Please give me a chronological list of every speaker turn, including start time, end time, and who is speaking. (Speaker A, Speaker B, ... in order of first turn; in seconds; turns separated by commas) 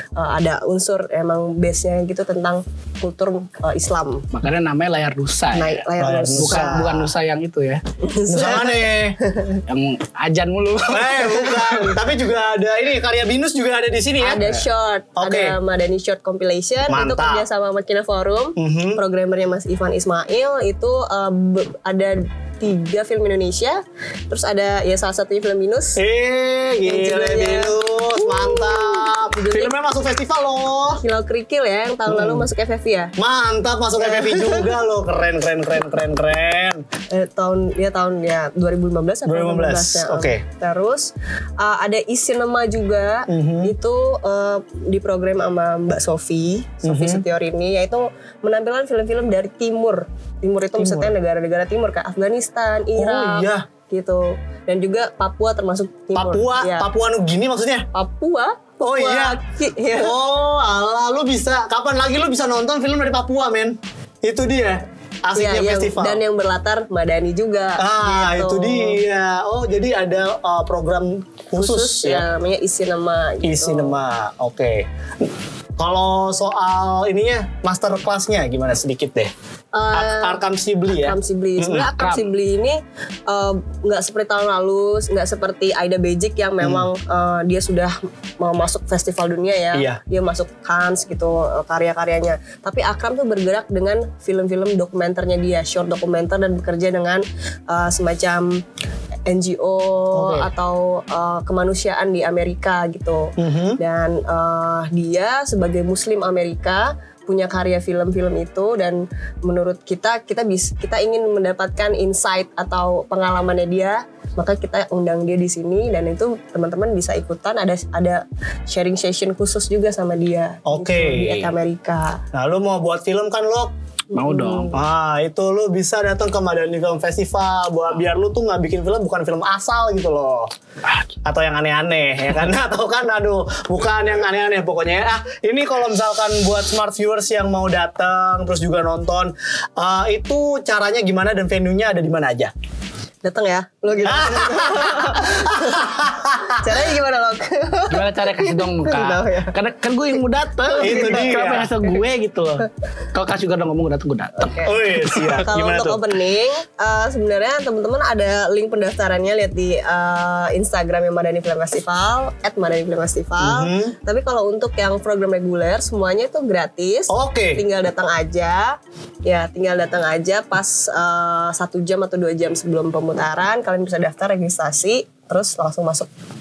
Speaker A: 0.2-4.3, Speaker B: 4.3-7.8, Speaker A: 5.5-6.9, Speaker C: 6.0-7.1, Speaker A: 8.0-9.6, Speaker C: 8.3-9.2, Speaker B: 9.7-12.0, Speaker C: 10.9-14.5, Speaker A: 14.2-26.0, Speaker C: 15.2-15.6, Speaker C: 16.9-17.5, Speaker C: 18.6-19.0, Speaker C: 26.0-31.0, Speaker A: 26.8-29.7, Speaker A: 31.0-33.1, Speaker C: 32.1-32.5, Speaker C: 33.2-36.8, Speaker A: 34.0-34.7, Speaker A: 37.1-56.9, Speaker C: 39.3-40.4, Speaker C: 43.3-43.7, Speaker C: 46.8-47.2, Speaker C: 50.8-51.1, Speaker C: 53.0-53.7, Speaker C: 56.1-57.9, Speaker A: 57.9-60.1, Speaker C: 58.8-59.4, Speaker C: 60.0-66.2, Speaker A: 65.3-69.0, Speaker C: 67.8-72.3, Speaker A: 71.5-74.0, Speaker C: 73.4-74.9, Speaker C: 75.8-79.3, Speaker A: 79.7-98.6, Speaker C: 79.9-82.0, Speaker B: 82.0-82.3, Speaker C: 86.6-86.9, Speaker C: 89.7-90.0, Speaker A: 99.3-122.2, Speaker C: 100.1-100.5, Speaker C: 103.4-103.8, Speaker C: 120.7-121.5, Speaker C: 122.3-123.7, Speaker B: 124.1-124.8, Speaker A: 124.2-124.8, Speaker C: 124.7-130.5, Speaker C: 131.2-142.5, Speaker A: 143.2-145.9, Speaker C: 144.0-146.6, Speaker A: 146.6-149.6, Speaker B: 147.9-154.7, Speaker C: 150.7-151.7, Speaker A: 150.8-151.6, Speaker A: 154.4-154.7, Speaker C: 154.6-156.0, Speaker A: 155.4-176.1, Speaker C: 163.4-164.0, Speaker C: 167.1-167.6